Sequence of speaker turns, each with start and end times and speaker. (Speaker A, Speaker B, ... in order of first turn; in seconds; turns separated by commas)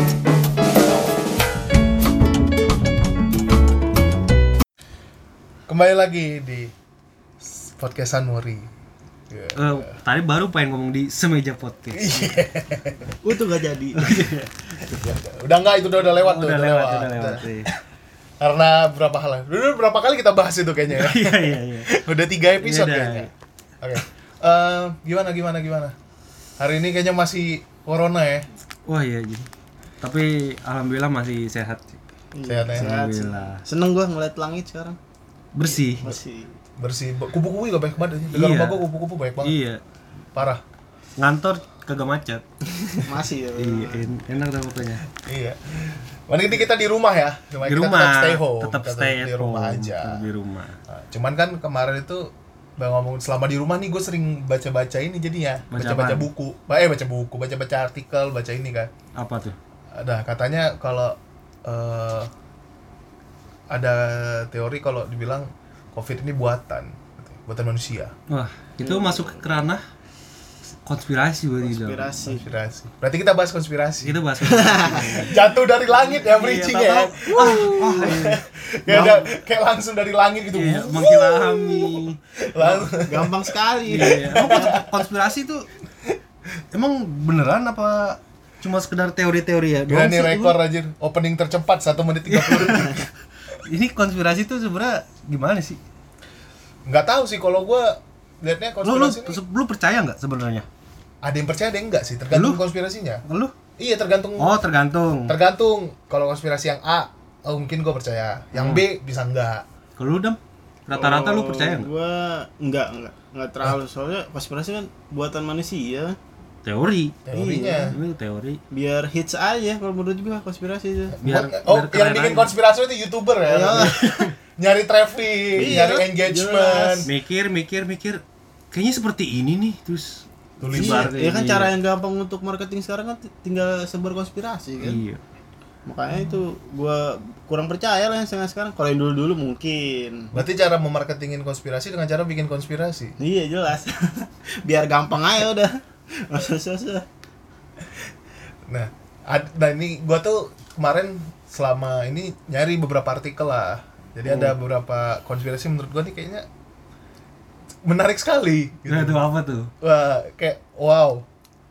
Speaker A: 5.7-6.7, Speaker A: 7.4-8.7, Speaker A: 9.3-9.8, Speaker B: 9.5-12.4, Speaker A: 11.9-13.1, Speaker C: 13.2-14.2, Speaker B: 14.0-14.6, Speaker A: 14.8-17.5, Speaker B: 16.1-17.7, Speaker A: 18.4-25.9, Speaker B: 20.9-22.0, Speaker B: 22.6-23.3, Speaker A: 26.6-28.5, Speaker B: 28.9-29.5, Speaker B: 30.0-32.0, Speaker C: 32.3-35.0, Speaker A: 32.5-33.0, Speaker B: 32.8-33.6, Speaker B: 35.5-36.1, Speaker C: 35.7-36.6, Speaker A: 36.8-39.5, Speaker B: 38.3-38.8, Speaker B: 39.4-39.8, Speaker A: 40.3-40.6, Speaker B: 41.2-42.4, Speaker C: 42.9-44.0, Speaker B: 43.5-45.0, Speaker A: 45.1-50.2, Speaker B: 47.6-50.8, Speaker A: 50.9-58.9, Speaker B: 55.7-56.3, Speaker B: 59.1-59.6, Speaker A: 59.9-62.3, Speaker A: 63.7-68.1, Speaker B: 68.3-69.8, Speaker C: 68.8-69.4, Speaker B: 70.8-72.1, Speaker C: 71.6-72.4, Speaker A: 72.2-74.2, Speaker B: 74.0-75.4, Speaker C: 74.4-75.3, Speaker A: 75.0-85.0, Speaker B: 76.1-78.4, Speaker C: 77.3-78.1, Speaker C: 78.9-79.3, Speaker B: 80.5-82.8, Speaker C: 82.9-84.7, Speaker B: 83.9-85.7, Speaker B: 86.7-90.6, Speaker A: 89.9-93.0, Speaker B: 92.3-95.8, Speaker A: 96.8-99.4, Speaker B: 98.8-100.7, Speaker A: 101.2-103.2, Speaker B: 102.3-102.6, Speaker B: 103.3-103.5, Speaker A: 103.8-104.5, Speaker B: 104.4-105.3, Speaker A: 105.3-109.6, Speaker B: 108.5-108.8, Speaker B: 110.0-111.9, Speaker C: 110.9-116.2, Speaker B: 116.6-117.2, Speaker A: 117.3-117.9, Speaker C: 117.3-117.9, Speaker B: 117.9-118.6, Speaker C: 118.7-121.2, Speaker A: 121.2-127.1, Speaker B: 121.2-122.5, Speaker C: 123.5-124.3, Speaker B: 123.8-124.2, Speaker C: 125.5-127.1, Speaker B: 127.1-131.7, Speaker A: 130.6-131.1, Speaker C: 130.7-135.0, Speaker B: 134.8-135.2, Speaker C: 135.8-140.3, Speaker A: 140.3-143.1, Speaker C: 143.2-147.0, Speaker A: 148.7-156.4, Speaker B: 154.2-154.5, Speaker A: 157.8-159.2, Speaker B: 158.9-159.7, Speaker A: 159.8-161.2